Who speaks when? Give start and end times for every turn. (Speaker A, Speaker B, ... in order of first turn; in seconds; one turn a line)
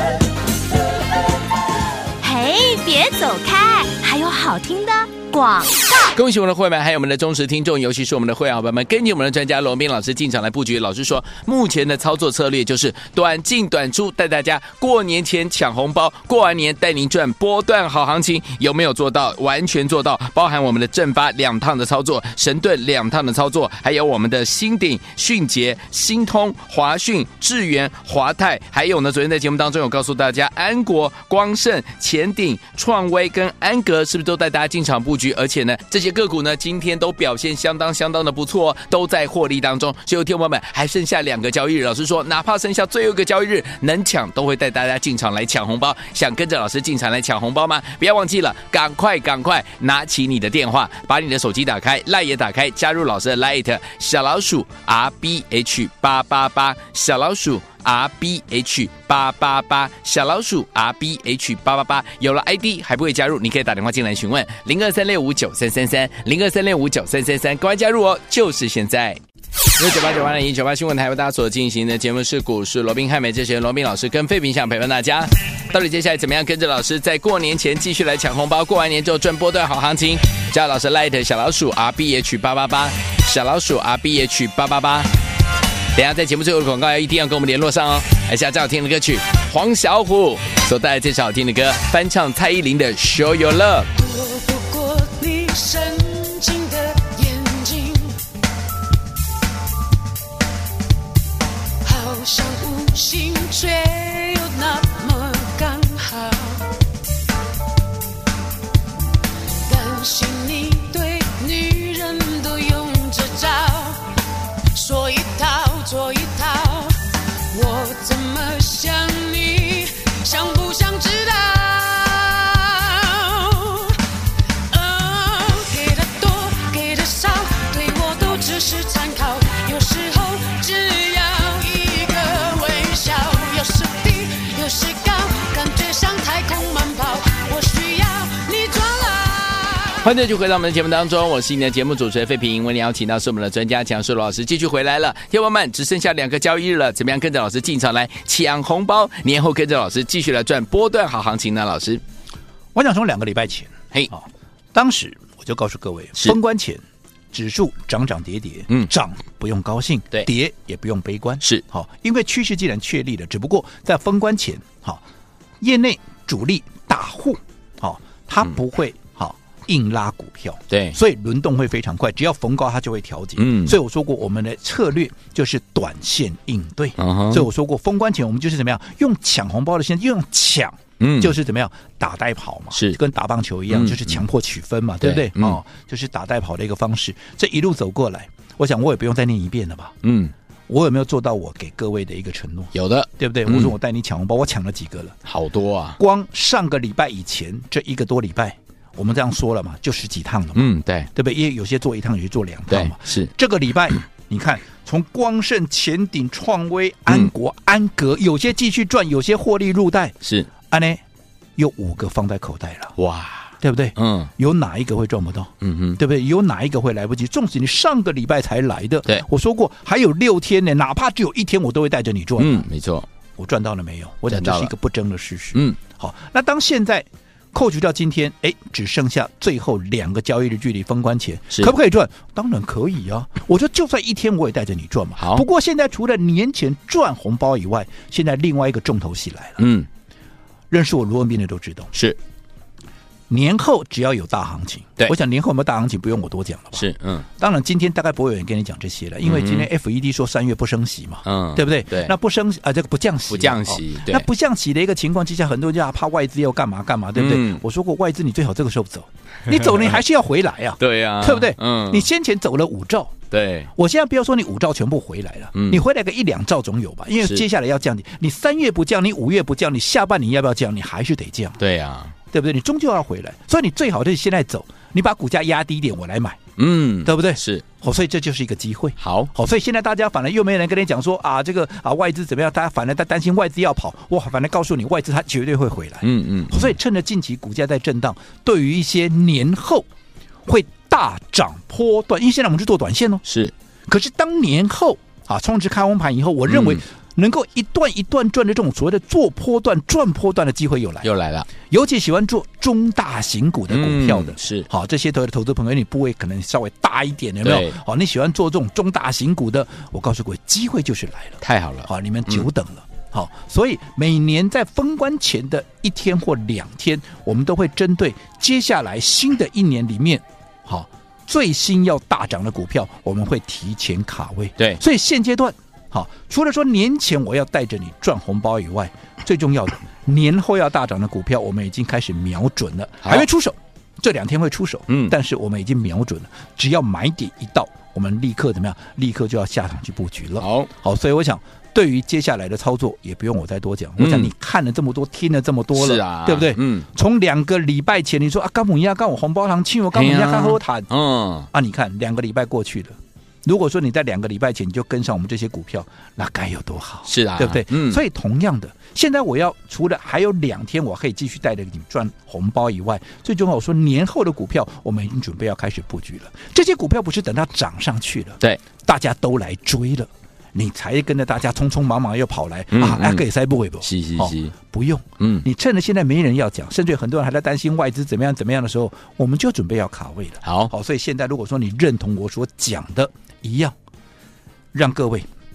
Speaker A: 2.2-6.1
Speaker B: 6.1-69.2
Speaker B: 69.8-85.2
Speaker B: 85.9-93.9
Speaker C: 94.0-98.2
Speaker C: 101.8-106.7
Speaker C: 109.7-114.1
Speaker C: 114.7-117.0
Speaker C: 117.5-124.0
Speaker C: 124.7-140.1
Speaker B: 140.0-152.0
Speaker D: 152.8-165.0
Speaker D: 165.6-190.0
Speaker B: 170.7-171.0
Speaker B: 173.4-173.8
Speaker B: 177.0-177.5
Speaker B: 181.0-181.3
Speaker B: 182.7-183.0
Speaker B: 183.7-184.2
Speaker B: 185.0-185.6
Speaker B: 190.0-190.3
Speaker D: 190.7-195.2
Speaker B: 192.7-193.7
Speaker B: 195.3-196.0
Speaker D: 196.0-211.0
Speaker B: 200.6-201.1
Speaker B: 202.7-203.3
Speaker B: 210.2-210.5
Speaker D: 211.6-212.9
Speaker B: 213.0-214.3
Speaker D: 213.6-222.7
Speaker B: 215.6-216.0
Speaker B: 222.4-223.1
Speaker D: 223.4-239.6
Speaker B: 224.3-224.7
Speaker B: 235.2-235.4
Speaker B: 239.6-239.9
Speaker D: 240.7-241.9
Speaker D: 243.3-246.8
Speaker B: 246.8-247.3
Speaker D: 247.4-263.2
Speaker B: 249.2-249.7
Speaker B: 251.2-252.1
Speaker B: 253.3-254.3
Speaker B: 257.1-257.6
Speaker B: 259.5-260.0
Speaker B: 260.8-262.1
Speaker B: 263.3-263.7
Speaker D: 263.8-271.6
Speaker B: 265.5-265.8
Speaker B: 271.6-272.1
Speaker D: 272.3-276.4
Speaker B: 276.6-277.6
Speaker D: 277.0-289.9
Speaker B: 279.0-279.3
Speaker B: 286.0-286.8
Speaker D: 290.5-293.2
Speaker B: 293.3-293.5
Speaker D: 293.9-350.9
Speaker B: 296.5-296.8
Speaker B: 301.0-301.5
Speaker B: 303.7-304.7
Speaker B: 307.4-307.8
Speaker B: 311.4-312.5
Speaker B: 334.9-335.1
Speaker B: 340.4-340.7
Speaker B: 344.0-344.3
Speaker B: 345.8-346.9
Speaker B: 349.9-351.5
Speaker D: 351.5-383.8
Speaker B: 357.1-358.0
Speaker B: 372.7-373.2
Speaker B: 373.8-374.5
Speaker B: 375.2-375.4
Speaker B: 380.4-380.7
Speaker D: 384.7-385.3